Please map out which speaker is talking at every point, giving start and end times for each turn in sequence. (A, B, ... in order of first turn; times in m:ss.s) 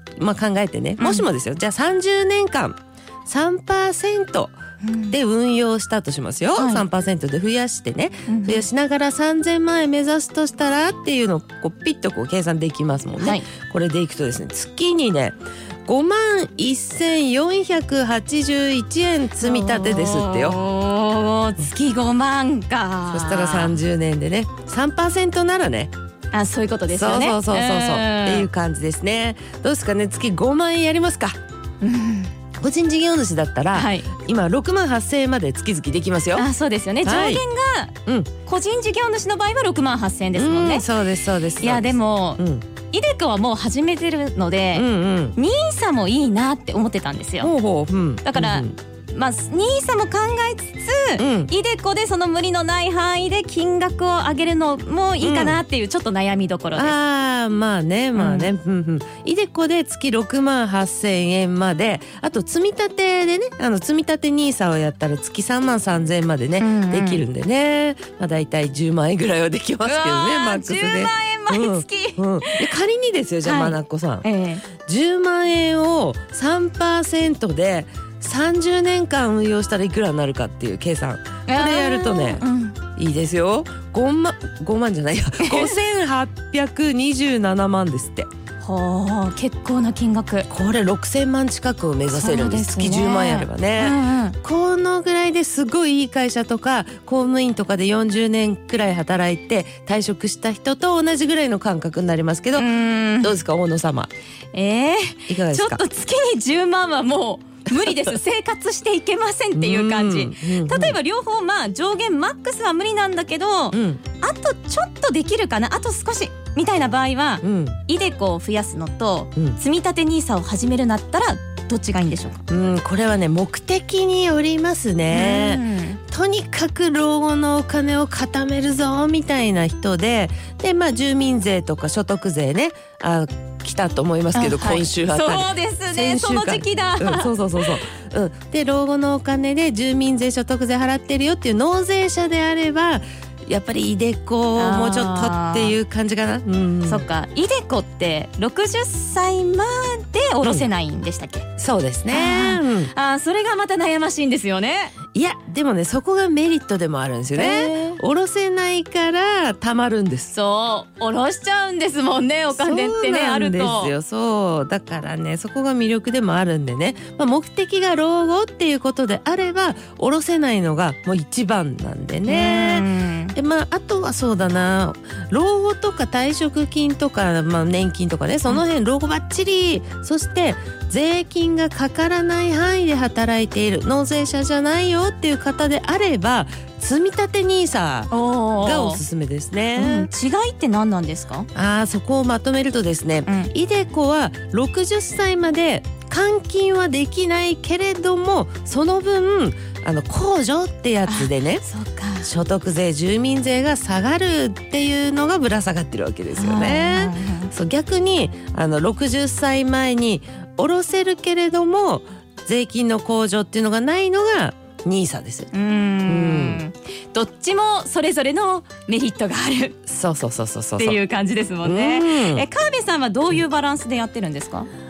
0:00.2-0:04.6 A
0:01.0-0:01.3 B
0:04.8-0:05.2 B
0:05.1-0:20.6 A
0:06.5-0:06.8 B
0:08.3-0:08.6 B
0:13.2-0:13.5 B
0:19.4-0:23.8 B
0:23.1-0:25.9 A
0:26.3-0:28.5 B
0:26.9-0:31.4 A
0:31.8-0:32.3 B
0:32.5-0:36.5 A
0:33.7-0:34.1 B
0:36.4-0:40.9 B
0:37.0-0:37.4 A
0:40.3-0:42.6 A
0:41.6-0:47.5 B
0:44.7-0:45.4 A
0:47.4-0:48.8 A
0:48.2-0:57.0 B
0:51.2-0:51.5 A
0:55.2-0:55.6 A
0:56.7-1:14.3 A
0:58.2-0:58.5 B
1:06.6-1:07.2 B
1:09.8-1:12.7 B
1:13.4-1:14.6 B
1:14.8-1:22.4 A
1:21.5-1:22.8 B
1:23.0-1:28.3 A
1:25.4-1:25.8 B
1:28.6-1:30.5 B
1:30.5-1:44.1 A
1:32.1-1:34.4 B
1:42.6-1:43.4 B
1:44.5-2:02.4 B
1:45.3-1:45.8 A
1:47.8-1:48.1 A
1:49.6-1:51.0 A
1:53.7-1:54.0 A
1:57.4-1:57.8 A
2:02.5-2:27.1 A
2:05.1-2:06.0 B
2:14.4-2:17.8 B
2:24.6-2:25.8 B
2:26.8-2:31.5 B
2:31.6-2:32.9 A
2:32.1-2:35.0 B
2:35.1-2:40.3 A
2:37.4-2:38.0 B
2:40.3-2:43.9 B
2:42.5-3:10.1 A
2:52.3-2:53.4 B
3:08.1-3:09.0 B
3:09.8-3:11.5 B
3:11.6-3:21.7 A
3:13.3-3:13.5 B
3:21.1-3:22.3 B
3:22.2-3:35.5 A
3:26.3-3:27.5 B
3:35.5-3:39.8 B
3:36.1-3:36.6 A
3:39.9-3:41.0 A
3:40.8-3:44.7 B
3:41.6-3:42.5 A